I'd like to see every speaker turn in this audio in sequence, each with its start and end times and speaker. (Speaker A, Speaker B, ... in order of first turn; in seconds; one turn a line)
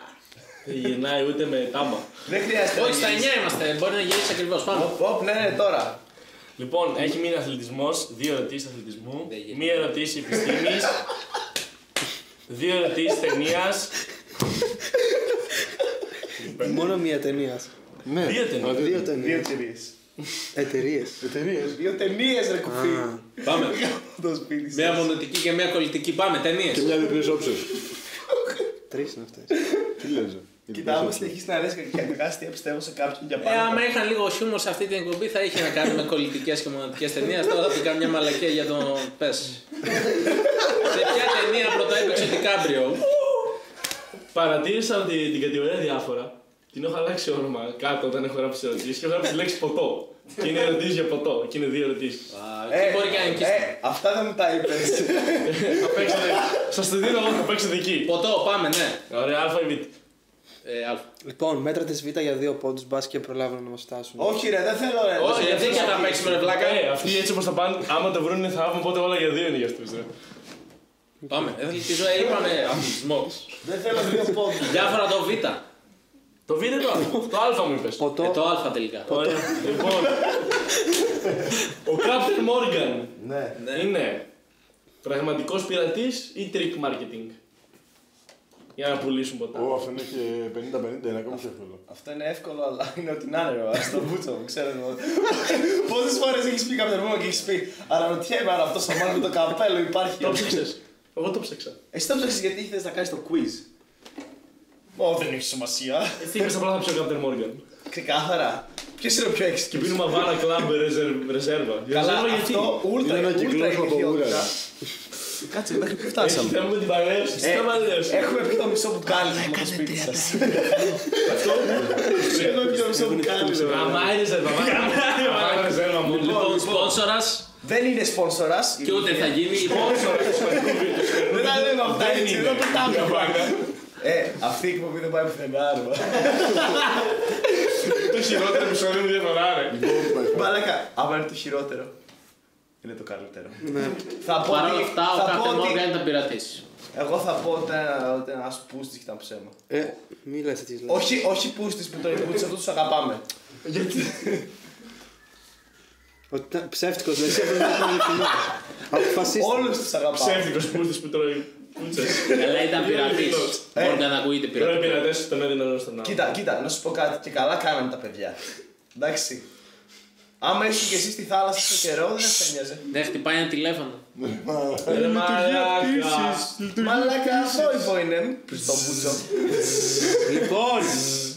Speaker A: 0.6-2.1
Speaker B: 2.2-3.3
Speaker C: 2.7-4.9
Speaker B: 4.7-6.0
Speaker A: 6.6-11.0
Speaker C: 9.2-9.9
Speaker A: 12.5-13.9
Speaker A: 16.4-16.9
Speaker D: 16.6-17.7
Speaker E: 18.0-19.1
Speaker A: 18.2-18.8
Speaker D: 18.7-19.5
Speaker B: 19.1-19.9
Speaker D: 20.5-21.2
Speaker E: 21.2-21.8
Speaker B: 21.6-25.1
Speaker D: 22.6-23.2
Speaker C: 23.4-23.8
Speaker C: 24.7-26.9
Speaker E: 26.7-27.7
Speaker B: 28.3-28.6
Speaker D: 28.9-29.6
Speaker B: 29.6-29.9
Speaker E: 30.0-31.4
Speaker B: 30.7-33.9
Speaker C: 33.4-40.1
Speaker C: 40.7-43.1
Speaker A: 43.2-43.5
Speaker A: 44.3-52.3
Speaker C: 52.3-53.7
Speaker B: 52.7-56.6
Speaker A: 55.4-58.1
Speaker C: 58.0-59.0
Speaker A: 59.1-59.9
Speaker C: 60.6-61.0
Speaker D: 61.2-64.4
Speaker B: 64.2-66.3
Speaker C: 65.2-66.9
Speaker A: 65.2-70.1
Speaker C: 71.3-73.5
Speaker B: 73.6-75.0
Speaker C: 74.5-75.6
Speaker A: 76.5-78.1
Speaker D: 78.0-78.4
Speaker C: 78.2-79.5
Speaker D: 79.1-79.5
Speaker A: 79.1-80.4
Speaker A: 81.8-83.2
Speaker B: 83.2-83.6
Speaker C: 83.5-83.9
Speaker A: 83.7-84.2
Speaker A: 85.0-87.3
Speaker A: 88.8-89.8
Speaker E: 89.5-91.8
Speaker B: 91.9-100.6
Speaker A: 100.2-101.8
Speaker B: 101.9-103.7
Speaker B: 104.9-106.5
Speaker A: 106.2-107.6
Speaker B: 107.9-110.3
Speaker A: 109.7-112.9
Speaker B: 111.9-114.5
Speaker E: 113.0-114.5
Speaker B: 115.4-116.6
Speaker A: 116.2-118.3
Speaker B: 117.4-124.2
Speaker A: 121.2-122.7
Speaker D: 122.2-124.2
Speaker A: 123.6-126.5
Speaker C: 124.6-127.5
Speaker B: 126.0-127.0
Speaker B: 127.6-138.7
Speaker C: 128.8-130.3
Speaker A: 129.5-133.7
Speaker A: 137.9-139.8
Speaker E: 139.7-140.6
Speaker B: 140.2-141.9
Speaker B: 142.8-145.9
Speaker D: 143.6-144.0
Speaker C: 144.4-146.6
Speaker B: 146.9-149.6
Speaker D: 149.7-151.1
Speaker B: 150.9-154.5
Speaker D: 156.3-159.8
Speaker B: 157.8-158.3
Speaker B: 159.2-160.6
Speaker A: 160.1-163.6
Speaker C: 162.3-165.0
Speaker B: 163.7-164.1
Speaker A: 164.5-166.3
Speaker B: 166.0-168.4
Speaker B: 168.9-169.4
Speaker B: 170.4-172.9
Speaker C: 172.9-174.0
Speaker E: 174.2-177.9
Speaker A: 174.9-176.6
Speaker B: 176.8-180.3
Speaker D: 180.2-181.1